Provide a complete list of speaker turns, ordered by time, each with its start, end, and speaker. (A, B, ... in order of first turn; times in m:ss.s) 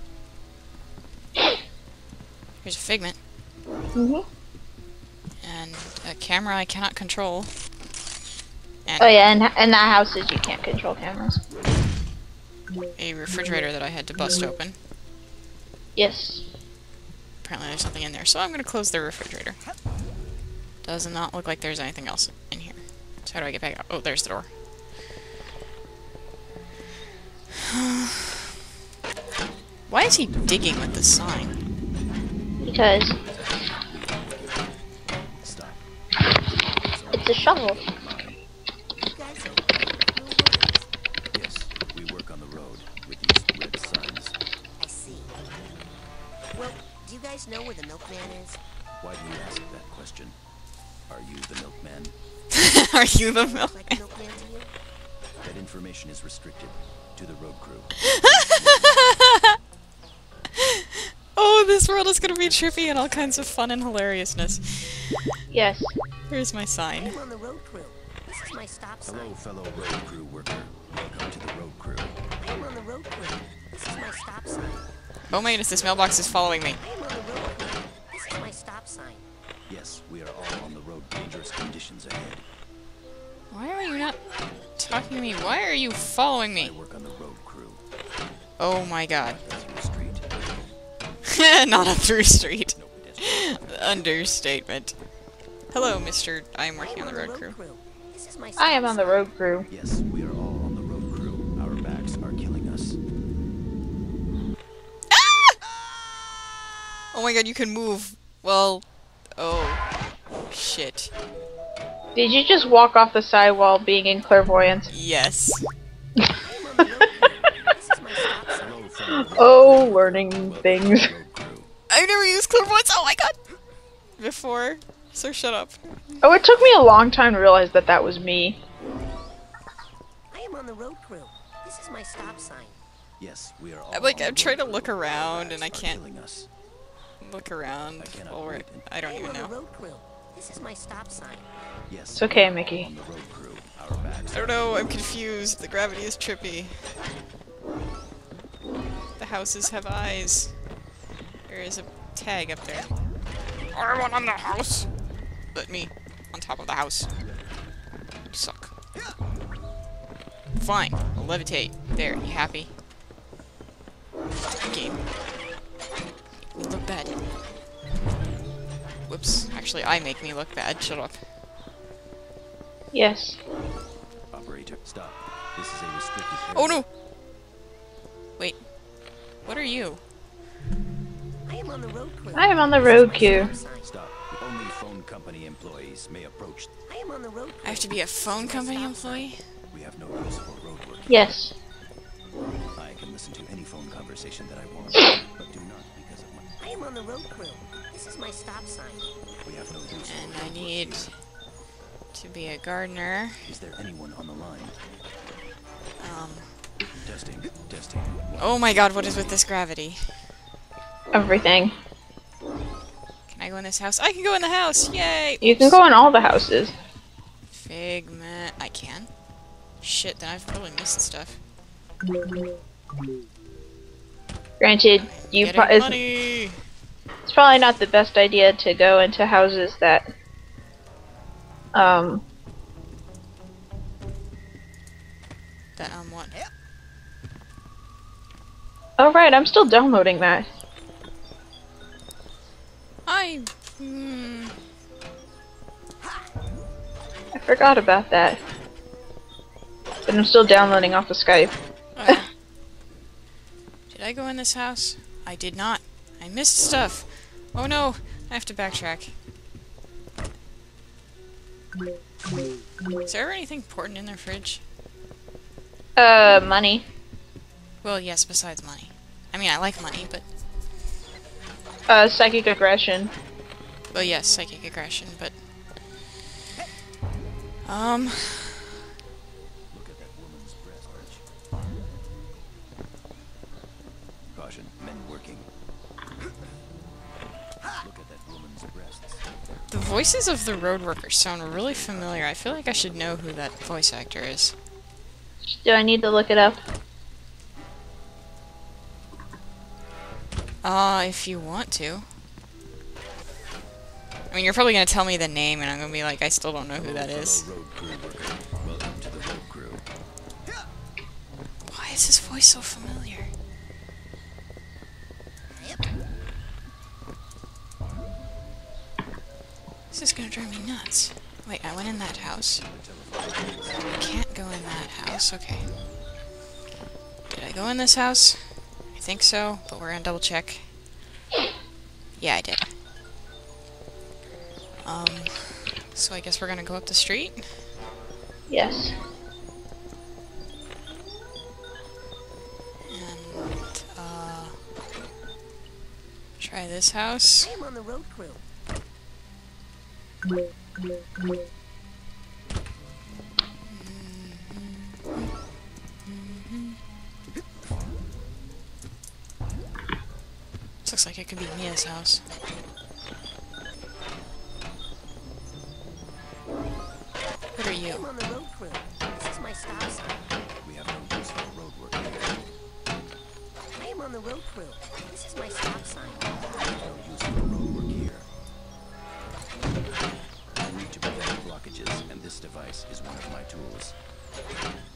0:02.6-0:03.2 A
0:04.0-0:04.2 B
0:05.4-0:07.5 A
0:08.8-0:09.2 A
0:09.0-0:11.4 B
0:13.0-0:14.8 A
0:16.0-0:16.4 B
0:17.4-0:19.6 A
0:20.8-0:24.5 A
0:27.7-0:28.3 A
0:29.9-0:31.6 A
0:32.6-0:33.2 B
0:33.0-0:34.7 C
0:35.3-0:38.4 C
0:37.2-0:37.8 B
0:39.0-0:40.9 D
0:41.3-0:44.4 C
0:44.8-0:45.4 D
0:46.5-0:48.6 D
0:49.0-0:50.4 C
0:51.1-0:52.2 C
0:52.5-0:54.0 A
0:53.4-0:54.7 D
0:55.4-0:59.1 C
0:58.1-0:59.6 A
1:01.3-1:05.2 A
1:02.2-1:03.6 C
1:05.5-1:06.0 B
1:06.3-1:07.2 A
1:07.0-1:09.3 D
1:09.1-1:12.2 C
1:12.4-1:14.8 D
1:15.3-1:16.8 A
1:15.3-1:16.0 C
1:16.8-1:19.2 D
1:19.7-1:22.4 C
1:23.5-1:24.2 A
1:24.8-1:26.7 A
1:26.5-1:27.8 C
1:28.6-1:29.4 A
1:29.2-1:30.4 C
1:31.3-1:35.0 A
1:32.7-1:34.2 C
1:35.7-1:37.6 A
1:36.8-1:39.2 D
1:38.6-1:39.7 B
1:39.7-1:43.0 C
1:45.1-1:45.6 A
1:47.1-1:48.8 A
1:49.4-1:49.8 A
1:50.5-1:51.1 A
1:52.2-1:54.9 B
1:54.9-1:55.7 A
1:56.5-1:58.6 D
1:58.5-2:01.7 C
1:59.2-2:01.1 B
2:01.9-2:03.3 A
2:04.2-2:05.8 A
2:06.2-2:08.6 B
2:10.3-2:12.8 D
2:13.2-2:16.5 C
2:13.9-2:16.0 A
2:17.2-2:19.5 A
2:18.0-2:18.9 C
2:19.0-2:21.5 D
2:21.9-2:24.8 C
2:22.2-2:22.9 B
2:24.3-2:26.8 A
2:29.2-2:30.5 A
2:31.5-2:32.9 A
2:33.7-2:34.9 A
2:35.5-2:37.1 A
2:38.3-2:38.7 A
2:40.5-2:42.7 A
2:44.6-2:45.0 A
2:46.4-2:47.2 A
2:49.1-2:51.2 A
2:52.9-2:53.4 B
2:54.3-2:56.8 C
2:56.5-2:56.9 A
2:59.4-3:00.0 A
3:01.5-3:03.9 D
3:02.4-3:03.5 B
3:03.8-3:06.7 C
3:06.9-3:09.3 D
3:07.6-3:09.4 A
3:09.7-3:11.3 C
3:11.1-3:11.5 B
3:12.8-3:16.4 C
3:16.6-3:19.1 D
3:19.4-3:21.1 C
3:20.1-3:21.1 A
3:22.1-3:23.5 A
3:23.4-3:24.8 C
3:26.0-3:26.5 A
3:27.0-3:29.4 C
3:28.4-3:30.0 A
3:31.1-3:31.7 B
3:33.3-3:35.8 A
3:35.4-3:36.7 B
3:37.5-3:39.1 A
3:39.8-3:41.4 A
3:44.6-3:46.0 B
3:45.0-3:46.6 A
3:47.3-3:50.1 B
3:51.7-3:52.2 B
3:55.8-3:56.3 A
3:59.0-4:00.5 B
4:03.1-4:04.5 A
4:07.4-4:08.4 B
4:10.1-4:11.5 B
4:12.0-4:12.3 A
4:13.9-4:19.1 A
4:23.1-4:24.6 A
4:26.0-4:26.8 B
4:27.8-4:30.2 A
4:31.9-4:33.1 B
4:33.9-4:35.3 A
4:37.6-4:38.7 A
4:39.7-4:41.3 C
4:44.3-4:45.5 C
4:47.8-4:49.9 C
4:49.7-4:54.6 A
4:51.5-4:52.3 C
4:55.6-4:56.6 B
5:00.6-5:02.1 A
5:04.3-5:07.5 A
5:06.8-5:09.8 C
5:11.7-5:13.3 A
5:19.9-5:22.6 A
5:22.3-5:24.0 C
5:23.9-5:25.7 A
5:27.3-5:30.7 A
5:32.2-5:32.7 A
5:34.8-5:37.5 A
5:38.5-5:39.0 B
5:42.9-5:44.6 A
5:46.4-5:47.5 A
5:47.4-5:48.4 D
5:53.7-5:55.3 A
5:56.0-5:56.8 A
6:00.8-6:02.2 A
6:07.6-6:08.1 A
6:07.9-6:10.3 D
6:10.6-6:12.4 C
6:13.8-6:16.4 D
6:16.6-6:18.3 C
6:20.6-6:24.0 C